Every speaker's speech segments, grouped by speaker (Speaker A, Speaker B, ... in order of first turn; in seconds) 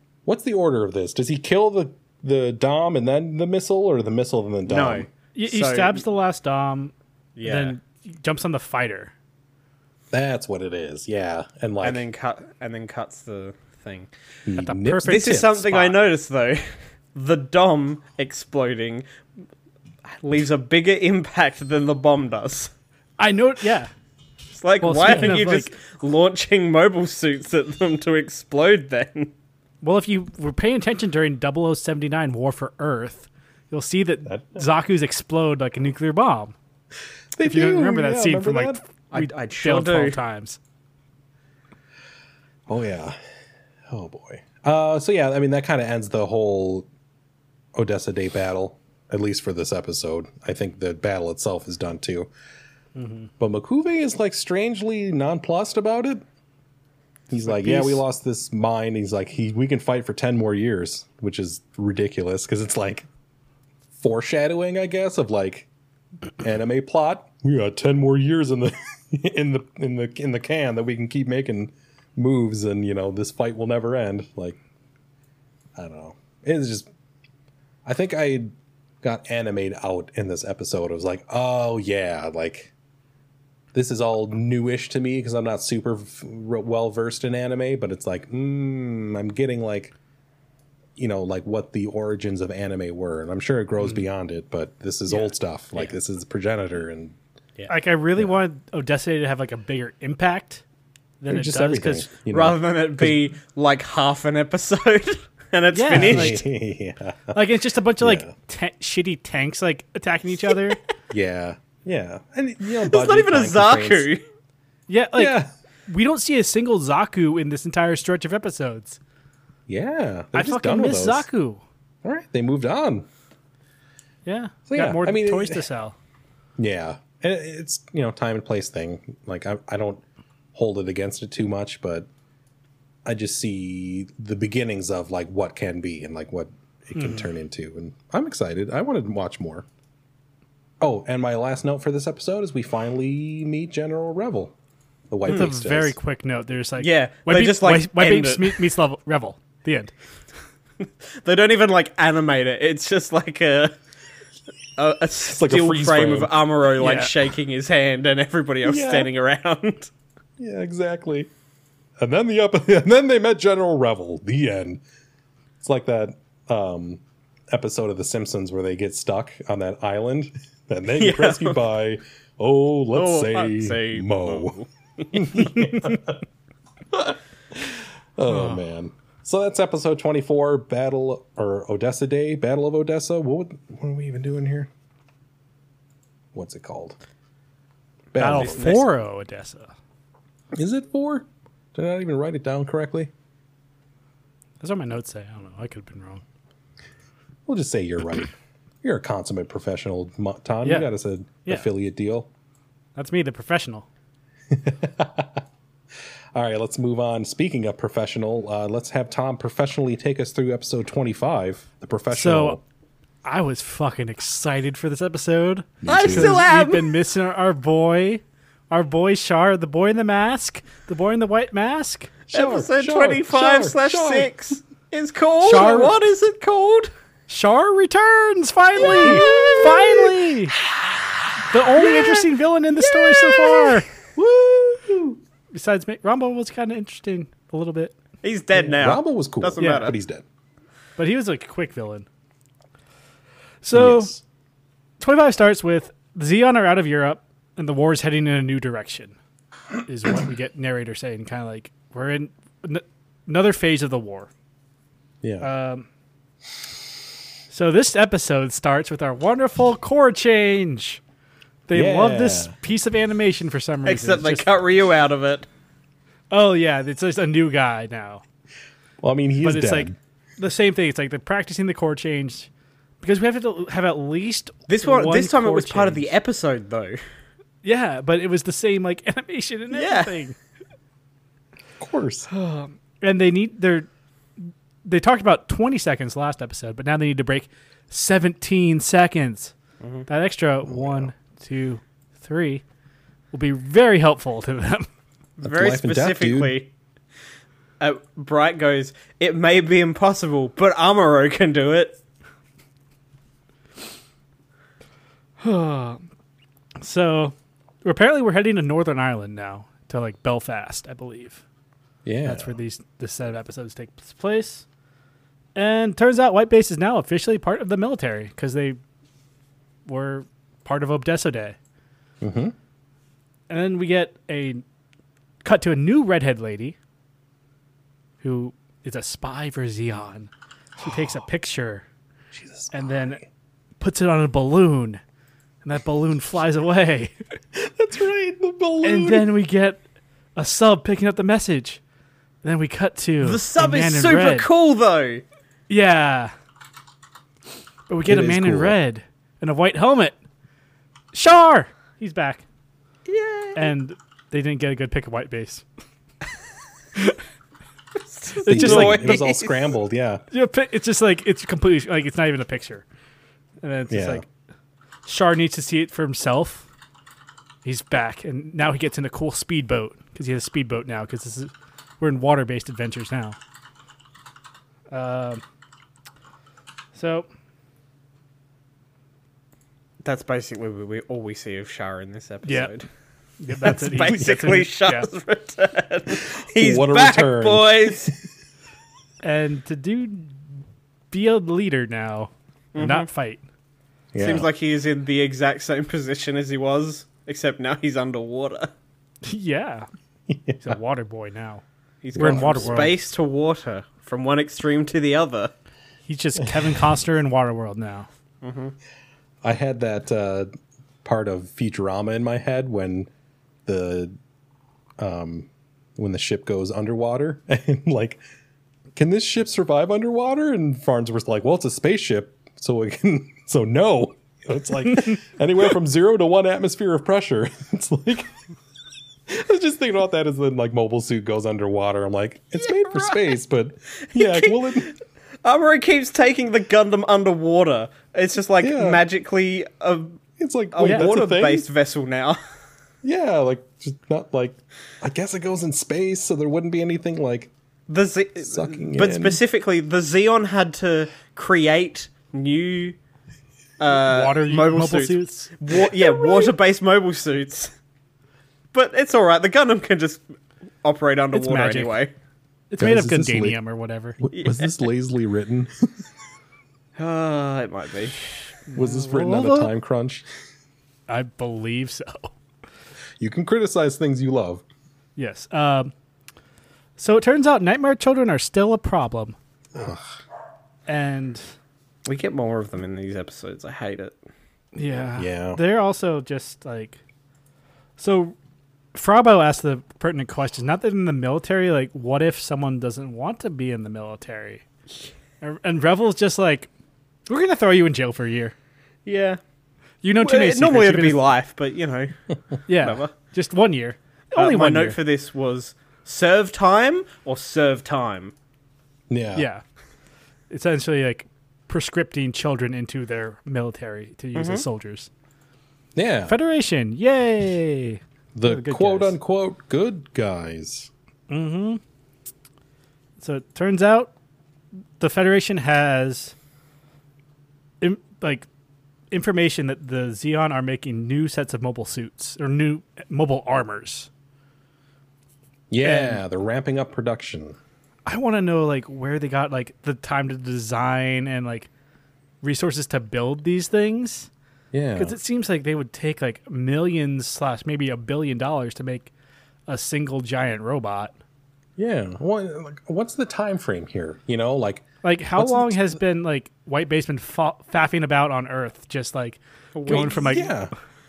Speaker A: 0.3-5.1, 10.1-12.0, 14.5-15.6, 34.3-34.6, 37.3-38.8, 42.7-43.2, 43.9-46.9, 47.8-52.3, 53.4-56.2, 57.3-63.1, 64.0-65.7, 66.4-74.6, 75.8-76.9, 77.8-82.7, 83.7-89.9, 91.0-97.2, 101.3-103.3, 105.9-107.5, 108.0-108.3, 111.1-114.1, 115.2-115.5, 119.7-121.3, 122.0-123.1, 124.7-125.6, 126.6-130.0, 130.5-132.1, 133.1-139.7, 140.8-144.5, 145.1-145.9, 155.4-156.3, 158.7-159.1, 160.4-161.3, 162.0-164.8, 165.6-174.6, 175.1-176.2, 176.9-184.7, 186.3-187.0, 188.1-188.8, 190.6-193.1, 197.5-198.3, 198.8-202.3, 204.5-205.4, 206.3-212.6, 215.8-216.4, 222.3-224.3, 225.5-225.9, 229.0-229.6, 238.8-240.2, 243.7-244.2, 255.2-255.5, 261.7-262.5, 269.0-270.0, 281.8-282.3, 290.7-291.1, 295.4-296.6, 312.1-312.5, 322.2-322.6, 330.8-331.1, 332.3-333.2, 337.6-339.3, 348.1-348.8, 358.5-360.2, 363.9-364.2, 386.3-388.2, 394.1-394.5, 400.3-400.8, 402.2-402.9, 409.4-410.5, 411.0-413.1, 413.7-414.1, 415.0-418.2, 419.0-428.3, 429.3-434.9, 438.6-439.0, 440.4-441.7, 443.0-447.5, 448.5-449.4, 455.8-456.5, 462.8-463.6, 464.2-465.9, 468.7-470.2, 473.2-474.6, 479.8-480.0, 485.2-485.6, 509.1-509.5, 516.0-516.4, 518.4-520.9, 535.7-537.6, 544.7-545.2, 551.8-556.0, 559.9-560.7
Speaker B: 4.7-6.0, 7.4-7.8, 11.8-14.1, 15.0-19.1, 20.1-22.7, 24.6-29.3, 39.1-40.2, 102.3-106.4, 112.8-114.2, 146.8-148.6, 151.1-153.7, 154.8-159.9, 171.0-171.6, 172.9-175.5, 188.2-188.9, 215.9-216.9, 222.3-226.9, 228.8-230.1, 233.2-233.7, 238.2-239.9, 263.9-265.5, 274.7-277.0, 279.7-280.1, 289.8-290.1, 295.4-296.7, 297.8-302.0, 343.2-345.2, 353.1-353.6, 358.1-359.7, 380.0-382.9, 383.6-388.1, 392.7-393.1, 394.2-398.7, 402.0-405.5, 408.4-408.7, 432.6-433.4, 434.1-440.2, 440.7-442.4, 447.9-453.0, 453.8-457.7, 458.7-460.2, 460.8-462.1, 464.3-464.7, 467.0-468.4, 482.1-484.2, 499.1-499.4, 500.2-502.1, 502.7-503.1, 504.4-508.3, 514.4-514.6, 559.8-560.4
Speaker C: 5.3-9.1, 14.6-15.9, 23.2-23.9, 24.8-25.7, 29.8-36.5, 37.4-40.6, 53.0-53.3, 57.4-58.0, 97.7-100.6, 101.2-102.1, 105.7-106.4, 107.3-110.8, 114.9-115.4, 115.9-119.0, 120.3-121.6, 124.2-126.0, 137.0-137.3, 145.3-149.9, 156.8-157.1, 178.3-178.6, 188.2-189.7, 194.6-196.2, 200.6-200.9, 202.9-203.9, 212.1-212.6, 213.2-222.1, 225.4-225.9, 227.3-230.6, 231.5-233.9, 235.5-238.0, 239.6-239.9, 241.0-242.1, 243.6-244.1, 245.0-249.2, 249.8-254.3, 255.4-255.9, 257.5-261.0, 261.7-264.5, 266.3-268.2, 269.4-272.5, 273.0-276.1, 277.6-280.4, 282.3-283.9, 284.4-289.5, 290.1-292.6, 293.3-294.9, 305.4-306.0, 306.8-311.4, 312.2-314.6, 315.6-318.8, 319.9-321.6, 323.5-324.6, 325.4-326.8, 328.2-331.9, 332.7-333.2, 333.8-335.0, 335.6-337.2, 338.8-339.8, 340.4-341.8, 342.4-344.5, 345.7-346.3, 347.9-350.2, 351.1-352.4, 353.6-355.6, 358.4-359.4, 360.3-362.9, 363.6-364.3, 365.1-366.7, 367.6-373.4, 374.9-375.4, 376.9-377.3, 382.4-382.7, 383.4-385.1, 389.2-390.4, 391.1-393.4, 399.2-399.9, 400.6-401.6, 402.2-403.0, 406.1-408.1, 453.9-455.5, 461.3-462.0, 462.7-464.2, 468.7-469.7, 471.1-472.4, 475.2-475.9, 477.0-479.4, 480.9-481.4, 484.8-487.0, 488.0-488.4, 488.9-494.6, 495.4-496.7, 497.3-498.6, 500.0-501.3, 502.7-505.0, 509.4-509.6, 510.5-515.1, 516.3-519.2, 521.3-521.8, 523.2-524.1, 525.0-526.4, 527.8-528.5, 529.1-534.1, 535.8-536.2, 538.1-541.7, 542.4-544.3, 545.0-549.1, 549.7-551.1, 555.0-560.6